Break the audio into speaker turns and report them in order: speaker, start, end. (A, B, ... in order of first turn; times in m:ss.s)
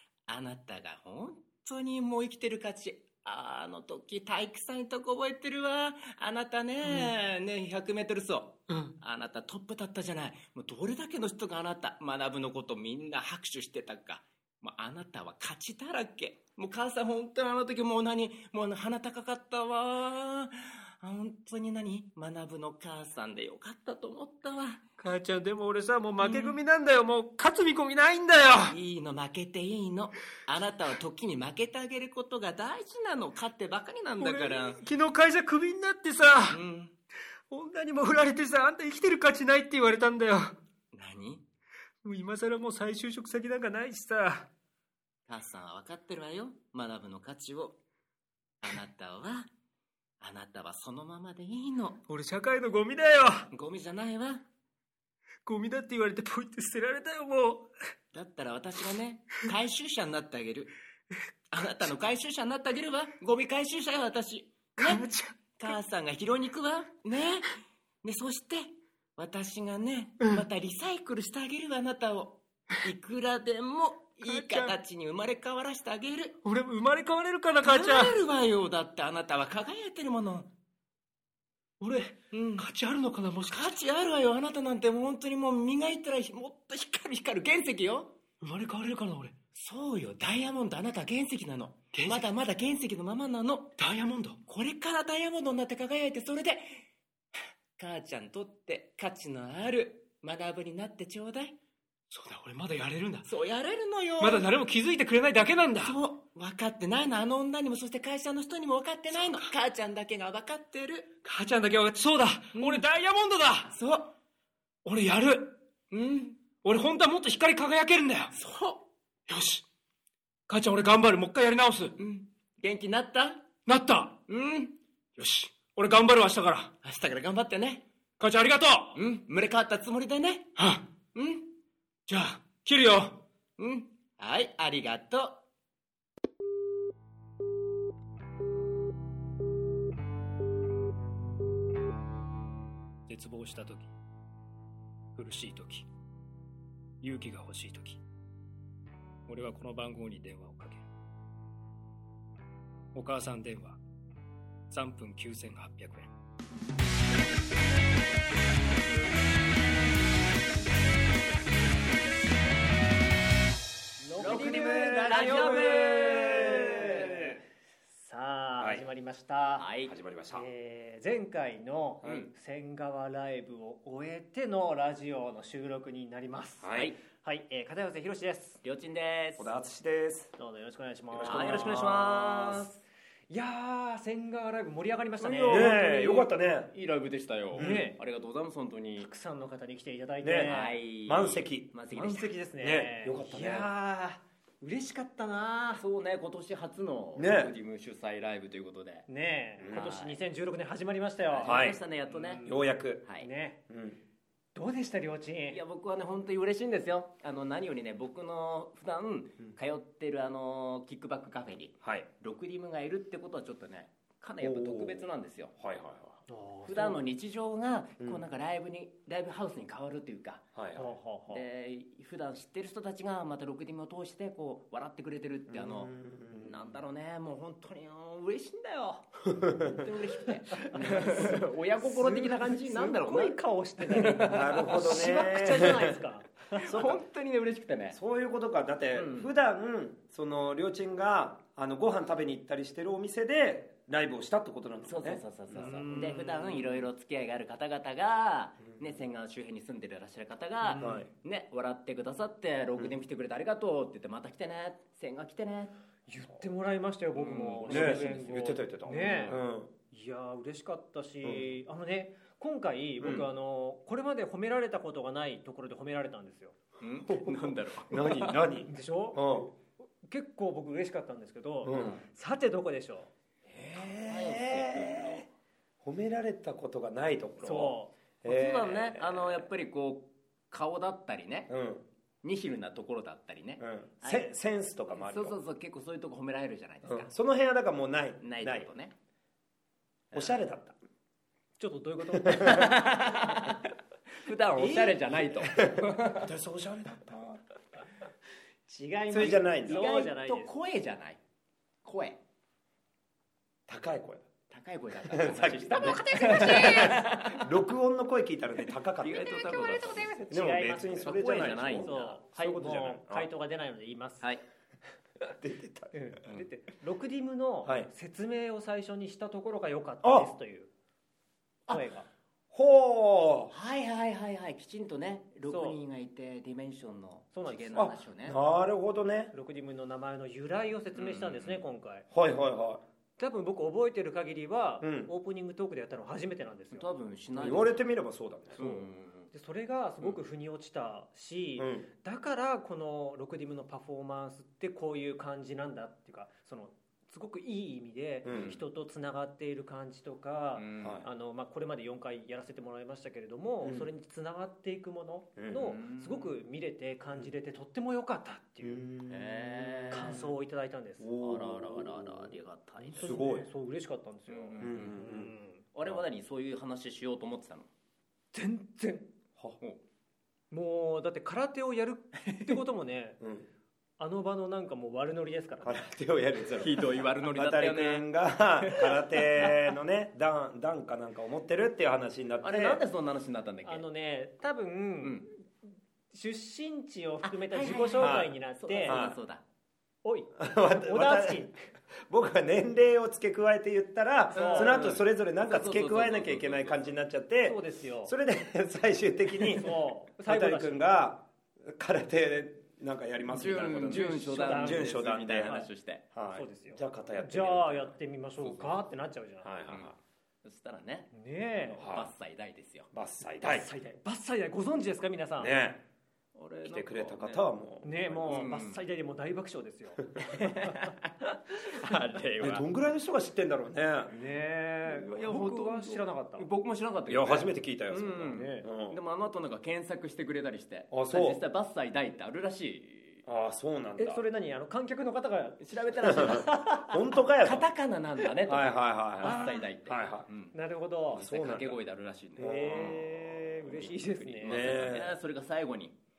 0:00.3-0:24.8 A
0:06.8-0:07.1 B
0:25.0-0:28.8 B
0:26.2-0:26.6 A
0:28.6-0:34.8 A
0:34.2-0:36.6 B
0:36.5-0:36.9 A
0:37.5-0:40.6 B
0:40.9-0:41.4 A
0:42.0-0:44.5 B
0:45.3-0:47.8 A
0:48.6-0:49.5 A
0:50.2-0:52.0 A
0:52.1-0:53.5 B
0:53.5-0:54.4 A
0:55.4-0:57.7 B
0:58.1-1:00.7 A
1:01.5-1:05.1 A
1:04.8-1:05.8 B
1:05.6-1:07.5 A
1:08.0-1:16.4 A
1:14.2-1:14.8 B
1:16.4-1:18.2 B
1:17.6-1:20.5 A
1:21.8-1:23.7 B
1:22.3-1:22.7 A
1:23.4-1:28.2 A
1:28.4-1:29.3 B
1:29.6-1:36.7 A
1:31.9-1:32.3 B
1:33.8-1:34.4 B
1:37.8-1:41.6 A
1:42.1-1:43.3 B
1:43.3-1:44.5 A
1:44.2-1:46.0 B
1:45.8-1:51.1 A
1:49.2-1:49.5 B
1:51.2-1:53.7 B
1:52.5-1:52.8 A
1:53.7-1:54.1 A
1:54.8-1:55.6 B
1:55.9-1:56.4 A
1:56.6-1:58.3 B
1:58.3-1:58.8 A
1:59.3-1:59.6 B
2:00.5-2:02.0 B
2:02.0-2:03.5 A
2:03.7-2:04.2 B
2:04.3-2:04.8 A
2:05.2-2:06.7 B
2:06.8-2:07.8 A
2:08.2-2:09.0 B
2:09.0-2:10.6 A
2:10.6-2:10.8 B
2:11.1-2:11.5 A
2:12.1-2:13.2 B
2:13.6-2:15.4 A
2:23.1-2:23.9 B
2:25.2-2:25.9 B
2:27.0-2:28.0 B
2:29.3-2:30.9 B
2:32.9-2:33.8 B
2:34.7-2:36.1 B
2:44.0-2:49.7 C
2:44.2-2:47.1 A
2:44.2-2:47.4 D
2:48.6-2:48.8 D
2:49.6-2:50.0 A
2:49.9-2:50.4 D
2:50.3-2:58.6 C
2:52.0-2:52.3 D
2:52.0-2:52.3 A
2:56.6-2:56.9 D
2:56.7-2:57.0 A
2:58.6-2:59.5 A
2:59.4-3:00.3 D
3:00.4-3:02.0 C
3:01.1-3:02.7 D
3:01.2-3:02.8 A
3:03.3-3:05.8 C
3:05.2-3:09.1 A
3:05.4-3:06.7 D
3:07.6-3:07.9 D
3:07.6-3:08.0 C
3:09.0-3:10.8 C
3:10.2-3:11.7 D
3:10.4-3:12.3 A
3:11.9-3:15.8 C
3:12.6-3:13.7 D
3:15.8-3:19.1 A
3:17.2-3:17.5 D
3:19.1-3:22.6 C
3:19.6-3:19.9 D
3:19.6-3:20.2 A
3:21.3-3:22.5 A
3:21.4-3:23.1 D
3:23.2-3:23.6 C
3:23.7-3:24.0 D
3:24.6-3:25.6 C
3:25.5-3:35.6 A
3:31.8-3:32.1 D
3:34.4-3:35.1 D
3:35.6-3:36.2 D
3:36.3-3:37.1 C
3:36.7-3:40.6 A
3:40.6-3:41.0 D
3:40.8-3:41.4 C
3:41.3-3:55.2 A
3:45.5-3:46.8 D
3:49.4-3:49.7 D
3:50.6-3:56.8 C
3:50.7-3:51.3 D
3:54.2-3:56.0 D
3:56.6-3:58.0 A
3:56.7-3:57.0 D
3:57.9-4:05.8 D
3:58.9-3:59.3 A
4:04.9-4:15.7 A
4:05.6-4:06.8 C
4:10.6-4:11.1 C
4:10.8-4:11.1 D
4:16.1-4:26.6 C
4:17.1-4:18.4 A
4:17.6-4:19.7 D
4:19.1-4:19.4 A
4:21.2-4:21.6 D
4:23.0-4:23.3 D
4:26.8-4:28.4 A
4:27.2-4:29.5 D
4:28.6-4:33.1 C
4:31.6-4:32.0 D
4:31.7-4:32.0 A
4:33.5-4:35.3 A
4:33.7-4:35.2 D
4:35.8-4:39.5 D
4:37.4-4:37.9 C
4:38.2-4:41.5 A
4:41.5-4:41.8 D
4:42.2-4:44.3 A
4:43.6-4:45.4 D
4:44.9-4:47.1 A
4:46.8-4:48.7 D
4:48.2-4:49.0 A
4:50.1-4:50.4 A
4:50.1-4:50.8 D
4:51.6-4:52.9 C
4:52.2-4:52.7 D
4:52.3-4:53.7 A
4:54.2-4:56.3 A
4:54.6-4:55.2 C
4:55.4-4:57.4 D
4:58.7-5:00.5 C
4:59.1-4:59.9 D
4:59.1-5:01.2 A
5:01.8-5:02.2 A
5:03.7-5:04.2 D
5:04.5-5:07.5 A
5:05.0-5:13.3 D
5:05.7-5:07.0 C
5:09.0-5:10.2 A
5:09.4-5:14.3 C
5:10.9-5:12.3 A
5:15.3-5:16.0 D
5:15.9-5:20.7 C
5:20.0-5:20.3 D
5:21.7-5:22.1 C
5:22.5-5:23.5 D
5:23.5-5:28.4 A
5:25.4-5:25.8 C
5:27.3-5:27.9 C
5:27.8-5:29.3 D
5:29.3-5:32.1 C
5:31.0-5:31.7 A
5:32.1-5:32.8 D
5:33.2-5:36.9 C
5:34.8-5:35.1 D
5:36.7-5:37.9 A
5:37.4-5:38.6 D
5:38.6-5:39.3 A
5:38.6-5:58.9 C
5:41.6-5:41.9 D
5:48.2-5:48.6 D
5:48.3-5:48.6 A
5:50.5-5:51.0 A
5:53.6-5:53.9 D
5:55.4-5:55.8 D
5:55.7-5:56.3 A
5:58.6-6:00.3 D
5:59.1-6:00.3 A
5:59.9-6:01.1 C
6:01.0-6:02.4 D
6:01.2-6:03.3 A
6:02.9-6:03.5 D
6:02.9-6:05.6 C
6:04.3-6:05.0 A
6:04.6-6:06.1 D
6:05.8-6:07.7 A
6:08.3-6:09.1 C
6:10.5-6:13.2 C
6:12.3-6:12.6 A
6:13.2-6:13.5 D
6:14.0-6:15.9 C
6:15.6-6:22.8 D
6:16.4-6:18.1 A
6:18.7-6:19.7 A
6:22.4-6:23.9 A
6:23.6-6:25.5 C
6:26.1-6:29.0 C
6:27.2-6:29.4 A
6:28.0-6:29.2 D
6:30.0-6:31.6 C
6:30.4-6:31.5 D
6:32.1-6:48.8 D
6:34.3-6:34.9 C
6:34.3-6:36.9 A
6:37.4-6:38.1 C
6:39.5-6:40.9 C
6:43.3-6:46.0 A
6:44.2-6:45.7 C
6:46.3-6:49.5 C
6:49.4-6:50.0 D
6:50.4-6:52.9 A
6:51.1-6:51.8 C
6:51.8-6:52.1 D
6:52.9-6:53.7 D
6:53.4-6:55.5 C
6:55.4-6:55.8 D
6:56.4-6:57.5 A
6:56.6-6:58.5 D
6:57.8-7:00.9 C
6:58.3-6:58.8 A
7:00.2-7:02.6 A
7:02.4-7:04.2 D
7:04.1-7:06.5 C
7:04.8-7:13.2 A
7:07.1-7:09.0 D
7:08.2-7:08.7 C
7:10.9-7:11.4 D
7:13.3-7:14.2 D
7:14.0-7:16.9 C
7:15.6-7:16.6 A
7:16.0-7:17.7 D
7:17.4-7:20.6 A
7:18.5-7:20.3 D
7:19.2-7:19.6 C
7:20.5-7:21.3 C
7:21.1-7:26.0 A
7:21.1-7:21.8 D
7:22.4-7:23.0 D
7:22.4-7:24.7 C
7:24.4-7:25.2 D